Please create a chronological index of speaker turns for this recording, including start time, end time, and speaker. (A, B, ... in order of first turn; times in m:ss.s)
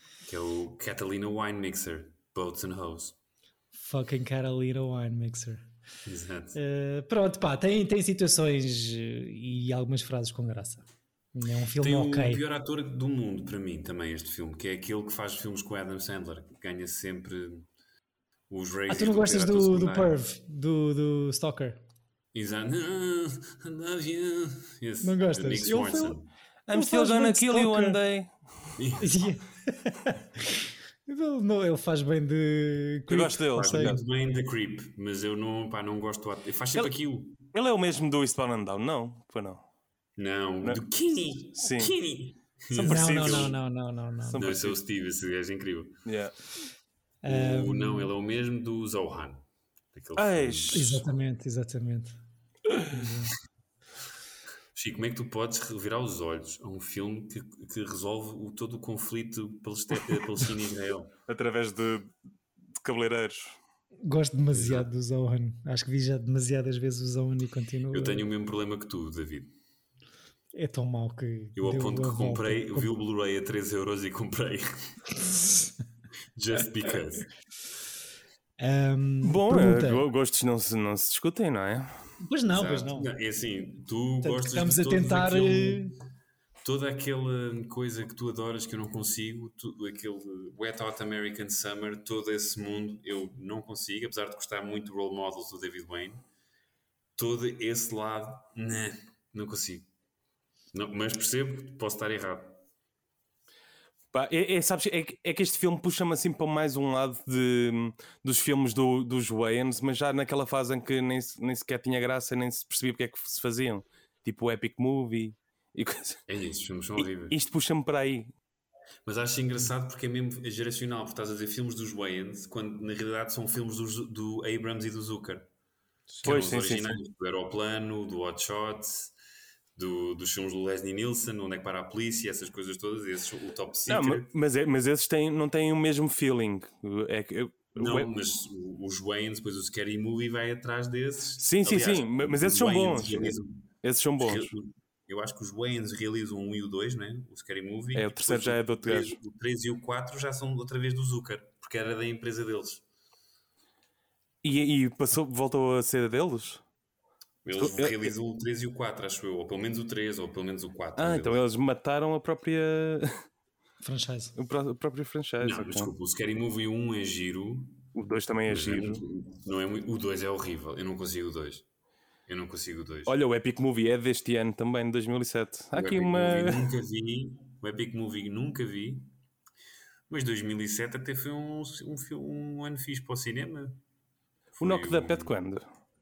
0:00.3-0:03.2 A
0:03.7-0:05.6 B
0:06.0-0:06.6 A
0:06.6-0:12.4 B
0:11.8-0:17.7 A
0:18.5-0:20.1 A
0:18.9-0:21.8 B
0:22.3-0:26.3 A
0:25.0-0:26.2 B
0:26.7-0:28.8 C
0:26.7-0:28.0 B
0:28.8-0:29.1 A
0:29.0-0:33.9 B
0:33.1-0:34.0 C
0:33.6-0:37.4 A
0:37.5-0:39.6 C
0:40.2-0:43.6 A
0:41.6-0:42.0 C
0:42.7-0:43.6 C
0:42.9-0:44.5 B
0:44.3-0:44.8 C
0:44.4-0:46.0 A
0:46.1-0:46.4 C
0:47.2-0:48.1 B
0:47.2-0:49.4 A
0:49.9-0:51.1 A
0:50.2-0:51.0 C
0:50.7-0:52.2 B
0:52.9-0:53.3 B
0:54.7-1:01.1 A
1:01.3-1:02.1 C
1:02.8-1:03.6 C
1:04.0-1:08.2 B
1:04.6-1:04.9 A
1:07.9-1:09.5 A
1:10.5-1:12.9 B
1:11.6-1:15.0 A
1:16.4-1:17.3 A
1:18.6-1:20.0 B
1:19.2-1:22.0 C
1:22.2-1:23.1 B
1:22.5-1:25.8 A
1:24.2-1:25.9 B
1:26.6-1:36.2 A
1:37.2-1:39.9 A
1:40.7-1:42.6 A
1:44.1-1:56.2 C
1:56.3-1:57.4 A
1:57.0-1:58.3 C
1:59.0-2:05.5 A
2:06.1-2:07.0 C
2:06.2-2:09.1 A
2:09.8-2:14.3 A
2:13.9-2:18.1 C
2:17.8-2:23.7 A
2:21.4-2:24.5 C
2:24.2-2:32.8 A
2:28.0-2:29.2 C
2:34.4-2:36.6 C
2:37.4-2:41.4 A
2:37.5-2:38.1 C
2:41.0-2:43.2 C
2:43.8-2:44.4 B
2:44.4-2:45.9 C
2:45.4-2:47.9 A
2:48.0-2:49.0 C
2:48.5-2:51.6 A
2:52.3-2:53.2 A
2:53.1-2:56.7 C
2:55.7-2:59.1 A
3:00.1-3:03.8 A
3:04.6-3:05.4 A
3:04.6-3:05.7 C